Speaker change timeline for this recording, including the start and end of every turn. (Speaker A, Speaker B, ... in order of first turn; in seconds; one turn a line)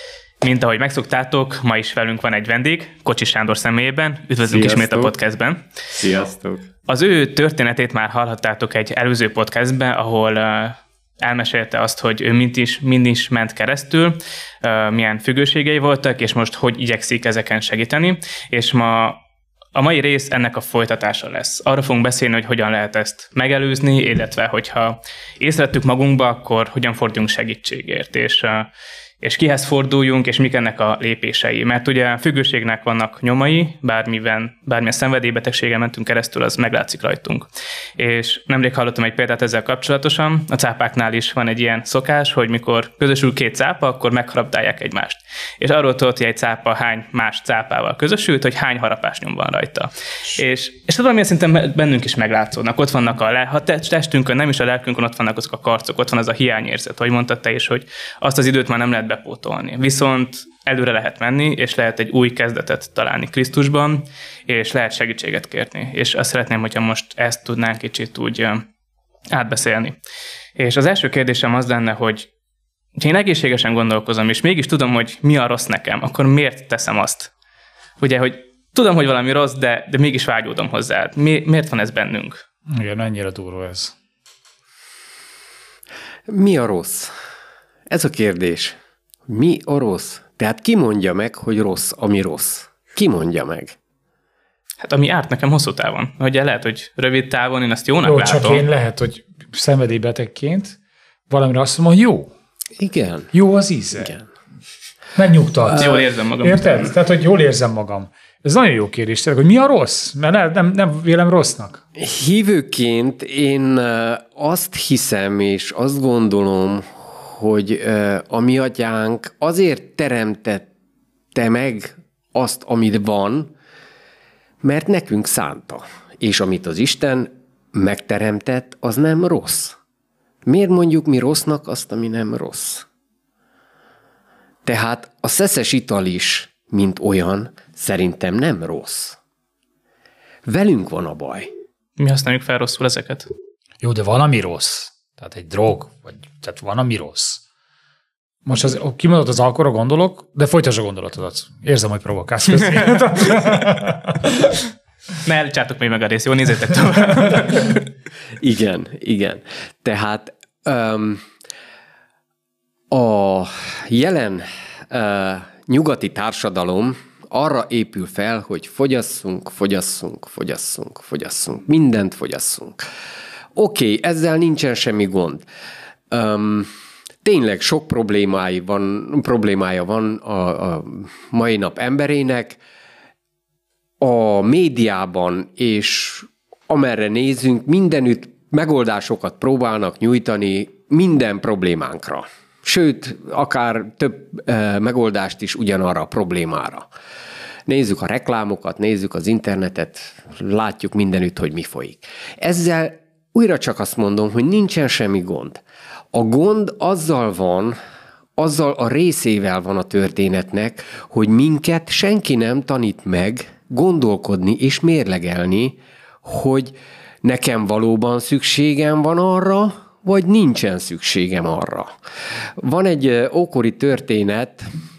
Speaker A: 0.4-5.7
Speaker B: 4.5-5.1
Speaker B: 5.9-6.7
Speaker A: 6.9-19.2
Speaker A: 19.7-28.7
Speaker A: 29.2-68.6
Speaker A: 69.3-70.0
Speaker A: 70.5-72.3
Speaker A: 72.9-77.3
Speaker A: 78.0-82.4
Speaker C: 82.7-83.9
Speaker B: 86.3-87.1
Speaker B: 87.9-88.8
Speaker B: 89.3-93.8
Speaker A: 94.8-98.6
Speaker C: 98.0-100.8
Speaker C: 101.3-102.3
Speaker B: 102.8-103.3
Speaker C: 103.3-104.1
Speaker B: 104.0-104.2
Speaker C: 105.1-111.8
Speaker A: 105.7-106.8
Speaker B: 112.0-120.7
Speaker B: 121.3-123.5
Speaker B: 124.6-129.8
Speaker B: 130.4-132.8
Speaker B: 134.6-139.2
Speaker B: 140.4-141.5
Speaker A: 142.0-143.3
Speaker C: 143.8-147.4
Speaker C: 148.4-154.6
Speaker A: 155.2-157.8
Speaker B: 158.4-161.2
Speaker B: 162.9-172.8
Speaker B: 173.5-175.4
Speaker B: 176.1-176.7
Speaker B: 177.2-182.6
Speaker B: 184.0-196.9
Speaker B: 197.7-205.6
Speaker B: 206.1-207.8
Speaker B: 208.4-221.9
Speaker B: 222.6-224.7